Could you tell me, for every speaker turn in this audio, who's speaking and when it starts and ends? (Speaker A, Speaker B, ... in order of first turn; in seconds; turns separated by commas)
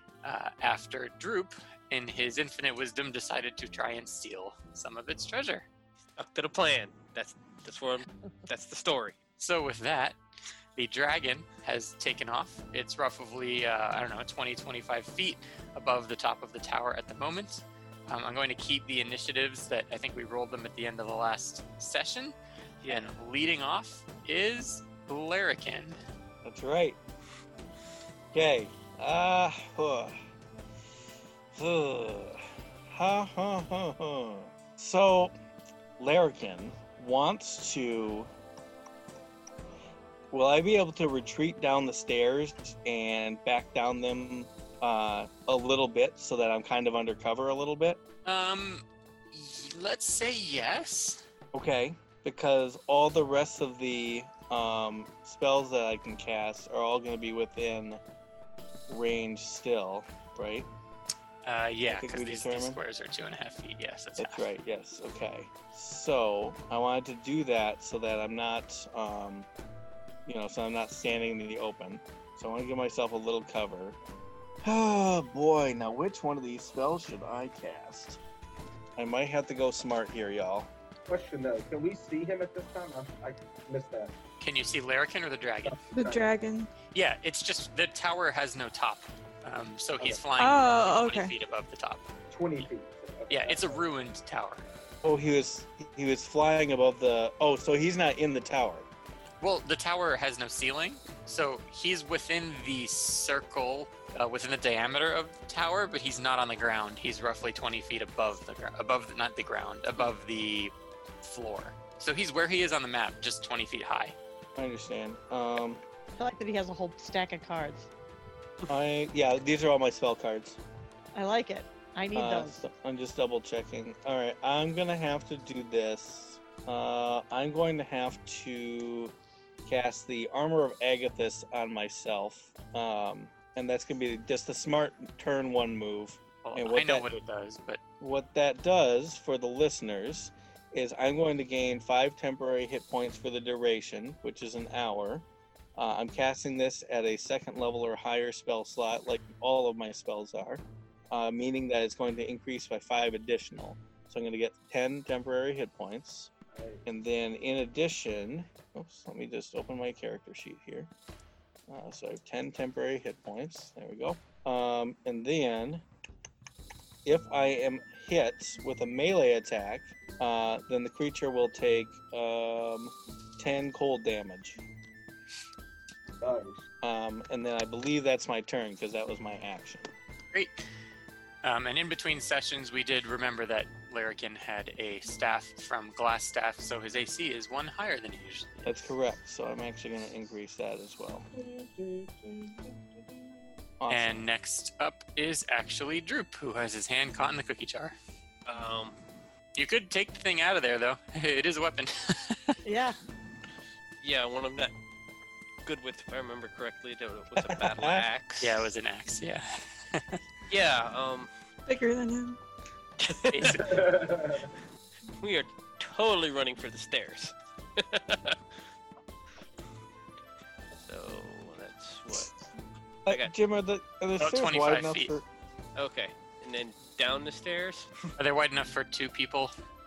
Speaker A: 0.2-5.7, Speaker B: 6.2-9.2, Speaker A: 9.4-10.2, Speaker A: 10.8-22.3, Speaker B: 22.8-23.1, Speaker A: 22.9-26.0, Speaker C: 26.4-27.0, Speaker C: 28.3-30.2, Speaker C: 31.5-35.3, Speaker C: 36.0-38.3, Speaker C: 40.3-48.0, Speaker A: 48.2-51.2, Speaker C: 51.5-58.0, Speaker C: 58.9-60.7, Speaker A: 61.4-64.5, Speaker C: 61.9-62.8, Speaker C: 64.2-69.5, Speaker C: 70.2-74.0, Speaker C: 74.6-78.2, Speaker C: 79.0-80.7, Speaker D: 81.1-84.2, Speaker A: 84.4-85.8, Speaker D: 85.7-86.3, Speaker E: 85.9-86.7, Speaker A: 86.9-92.0, Speaker E: 90.4-91.3, Speaker D: 92.3-93.8, Speaker A: 93.3-94.7, Speaker C: 95.0-98.9, Speaker A: 99.4-114.2, Speaker C: 114.6-115.8, Speaker F: 116.2-117.9, Speaker C: 118.7-120.6, Speaker F: 121.2-122.6, Speaker C: 122.2-129.1, Speaker C: 129.7-137.1, Speaker A: 136.4-137.8, Speaker C: 138.0-145.2, Speaker C: 145.8-156.3, Speaker D: 156.5-156.8, Speaker C: 156.8-160.9, Speaker C: 161.7-165.8, Speaker C: 167.0-174.6, Speaker D: 176.2-176.6, Speaker C: 176.8-179.9, Speaker A: 180.3-180.6, Speaker A: 181.4-188.8, Speaker C: 188.6-191.3, Speaker D: 191.3-193.3, Speaker C: 193.8-194.3, Speaker A: 193.9-198.0, Speaker B: 198.5-199.0, Speaker A: 199.5-202.5, Speaker F: 202.6-203.0, Speaker B: 204.0-204.7, Speaker B: 205.7-208.7, Speaker C: 207.3-208.1, Speaker A: 208.4-210.2, Speaker B: 210.5-211.3, Speaker E: 211.7-212.4, Speaker B: 213.0-213.9, Speaker A: 213.3-214.0, Speaker D: 213.7-214.5, Speaker B: 215.2-218.4, Speaker B: 220.8-222.3, Speaker C: 223.0-225.3, Speaker B: 223.1-223.3, Speaker A: 224.2-225.2, Speaker B: 225.8-228.1, Speaker A: 228.2-229.5